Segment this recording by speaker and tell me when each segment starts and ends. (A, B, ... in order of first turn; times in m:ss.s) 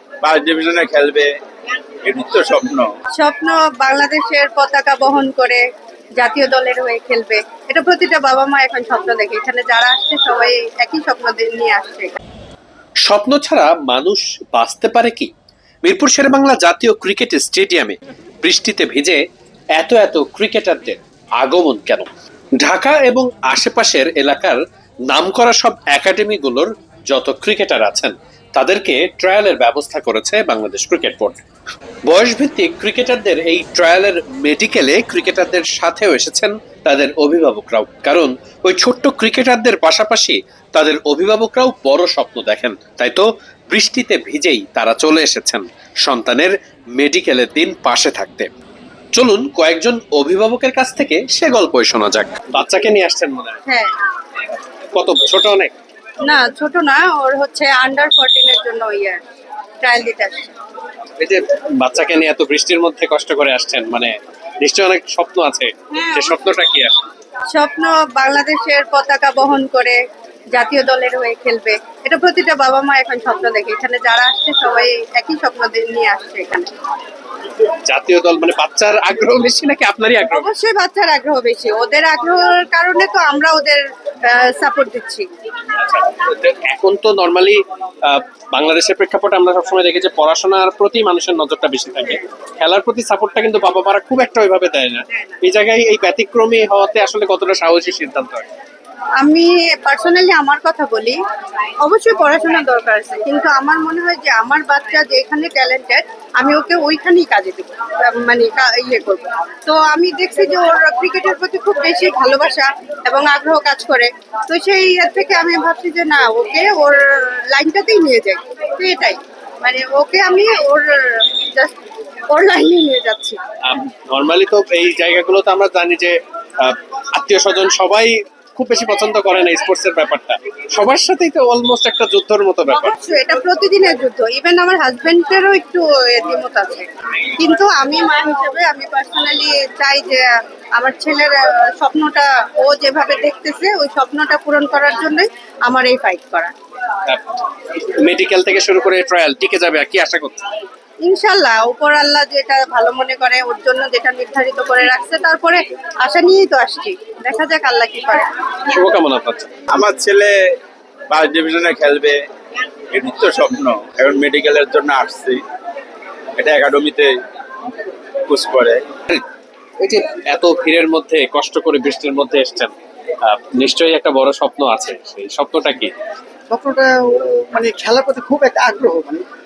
0:00.2-0:01.3 A
0:02.0-0:02.8 A
0:03.1-0:05.6 B
0:06.2-0:12.2 B
0:13.0-0:15.3 C
0:15.8-0:19.2 C
0:19.8-0:22.1 C
0:22.6-0:31.4 C
0:32.1-0:48.5 C
0:49.1-0:53.6 C
0:54.9-0:55.7 C
0:56.2-0:59.2 B
0:59.8-1:00.5 B
1:01.2-1:07.0 C
1:05.9-1:06.4 B
1:07.5-1:10.0 B
1:10.5-1:16.7 B
1:17.8-1:20.5 C
1:20.3-1:25.2 B
1:25.8-1:38.4 C
1:35.1-1:35.4 B
1:39.2-1:41.2 B
1:41.8-2:01.8 B
2:02.3-2:03.4 B
2:03.6-2:13.0 C
2:12.7-2:20.2 B
2:20.8-2:26.5 B
2:27.1-2:30.5 C
2:31.0-2:38.3 B
2:38.7-2:39.5 C
2:39.7-2:40.3 A
2:41.1-2:42.2 A
2:42.9-2:45.4 A
2:46.4-2:47.1 A
2:48.3-2:48.9 A
2:49.8-2:52.7 C
2:53.2-2:55.9 C
2:56.5-2:59.2 D